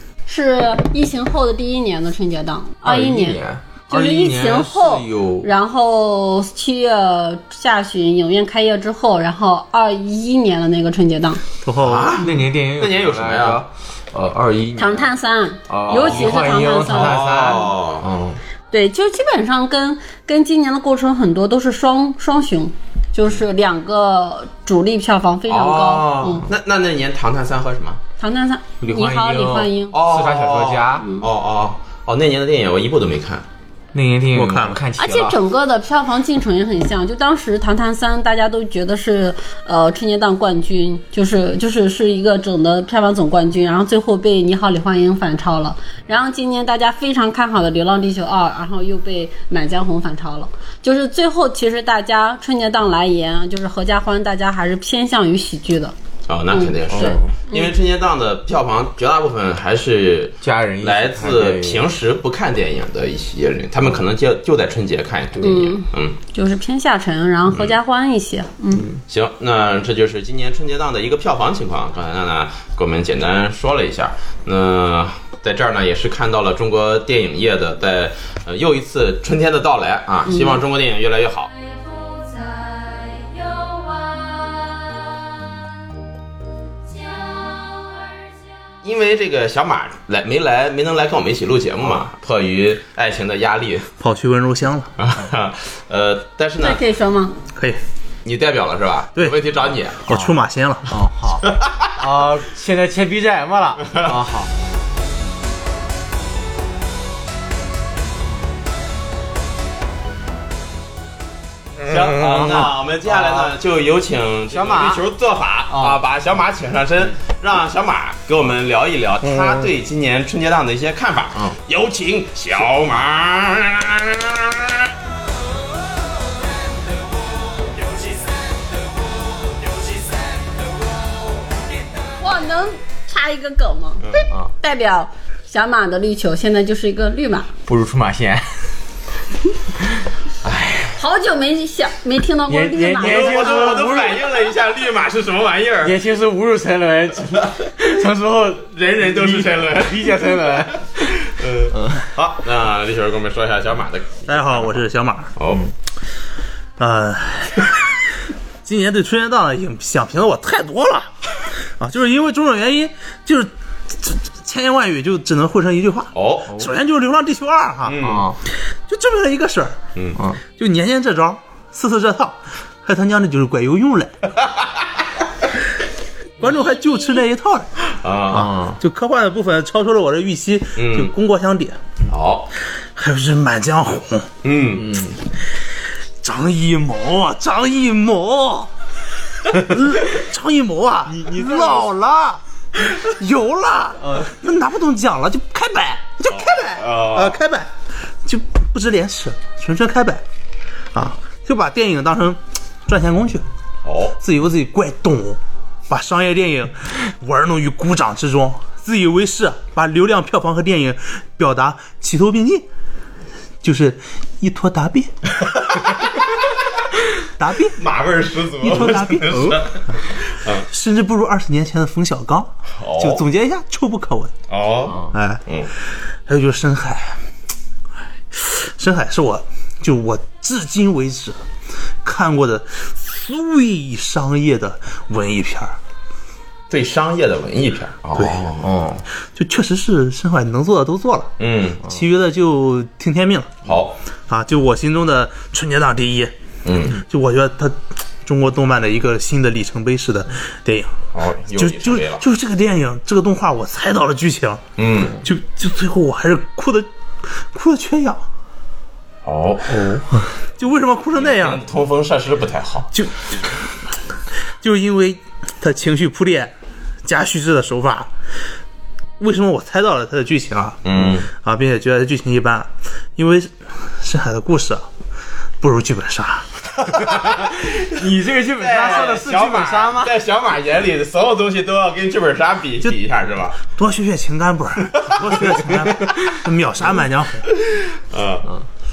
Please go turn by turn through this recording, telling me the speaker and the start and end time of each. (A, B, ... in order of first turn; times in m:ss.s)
0:00.3-0:11.4 A
0:02.8-0:05.5 B
0:11.6-0:12.2 C
0:11.8-0:13.6 D
0:12.1-0:15.1 B
0:14.8-0:17.2 A
0:15.7-0:18.4 B
0:15.9-0:18.1 D
0:18.7-0:26.5 A
0:25.5-0:28.0 D
0:28.2-0:30.0 A
0:28.8-0:31.1 B
0:29.9-0:33.4 D
0:33.9-0:35.4 B
0:34.3-0:34.8 C
0:35.0-0:55.9 A
0:56.3-1:06.2 D
0:56.5-0:57.7 A
0:56.9-0:57.3 B
1:00.4-1:01.9 B
1:05.4-1:08.9 A
1:09.1-1:21.5 D
1:20.3-1:20.6 A
1:21.5-1:25.7 E
1:26.8-1:28.7 E
1:28.8-1:33.9 D
1:34.0-1:34.9 C
1:35.0-1:36.8 D
1:36.6-1:37.4 A
1:37.6-1:37.8 C
1:38.2-1:40.0 D
1:40.0-1:40.9 C
1:40.1-1:40.4 B
1:40.9-1:44.5 B
1:41.4-1:41.9 D
1:43.9-1:44.2 D
1:51.9-2:04.7 D
1:51.9-1:53.6 B
1:54.5-1:55.0 B
1:55.7-1:56.0 B
2:12.2-2:17.5 A
2:17.7-2:18.7 B
2:20.4-2:20.9 D
2:21.0-2:23.7 A
2:22.5-2:24.4 B
2:23.0-2:26.0 D
2:25.8-2:31.2 B
2:28.7-2:30.2 D
2:31.2-2:34.8 D
2:31.7-2:32.0 B
2:34.3-2:35.3 C
2:35.4-2:35.7 D
2:36.8-2:37.8 C
2:38.6-2:41.1 C
2:41.8-2:48.0 C
2:46.1-2:46.6 D
2:47.8-2:48.3 D
2:48.0-2:48.4 B
2:48.9-2:49.8 C
2:50.0-2:50.2 D
2:50.6-2:54.2 C
2:56.4-2:57.7 C
2:56.6-2:57.2 A
2:58.0-2:58.5 D
2:58.3-3:01.8 C
2:58.3-2:58.8 B
3:00.8-3:01.1 D
3:02.1-3:02.5 D
3:03.0-3:04.3 C
3:04.4-3:05.0 D
3:04.8-3:05.2 B
3:06.2-3:08.7 C
3:09.4-3:17.7 C
3:11.1-3:11.9 B
3:14.0-3:14.3 B
3:16.3-3:17.4 D
3:18.2-3:20.2 C
3:20.9-3:23.4 C
3:23.8-3:24.2 D
3:24.2-3:32.6 C
3:33.6-3:35.1 C
3:35.4-3:36.0 D
3:37.4-3:37.8 C
3:37.8-3:40.7 D
3:38.6-3:39.6 C
3:40.7-3:44.3 C
3:42.8-3:43.2 D
3:44.5-3:45.7 D
3:45.1-3:45.4 C
3:46.3-3:47.2 C
3:48.3-3:51.4 C
3:52.0-3:55.8 C
3:56.7-3:58.7 D
3:58.6-3:59.0 B
3:59.4-4:01.3 C
4:01.4-4:01.8 D
4:01.8-4:03.5 C
4:03.6-4:04.0 D
4:04.3-4:06.3 C
4:06.6-4:07.0 D
4:07.1-4:11.0 C
4:11.1-4:12.2 D
4:11.5-4:14.6 C
4:14.8-4:15.2 D
4:15.2-4:18.2 C
4:19.2-4:19.9 D
4:20.6-4:21.6 C
4:21.2-4:22.9 D
4:24.6-4:26.5 C
4:27.0-4:28.1 C
4:29.2-4:34.9 C
4:30.8-4:31.3 D
4:35.6-4:36.5 C
4:36.9-4:40.1 B
4:38.6-4:43.6 D
4:43.7-4:47.5 C
4:47.5-4:48.5 D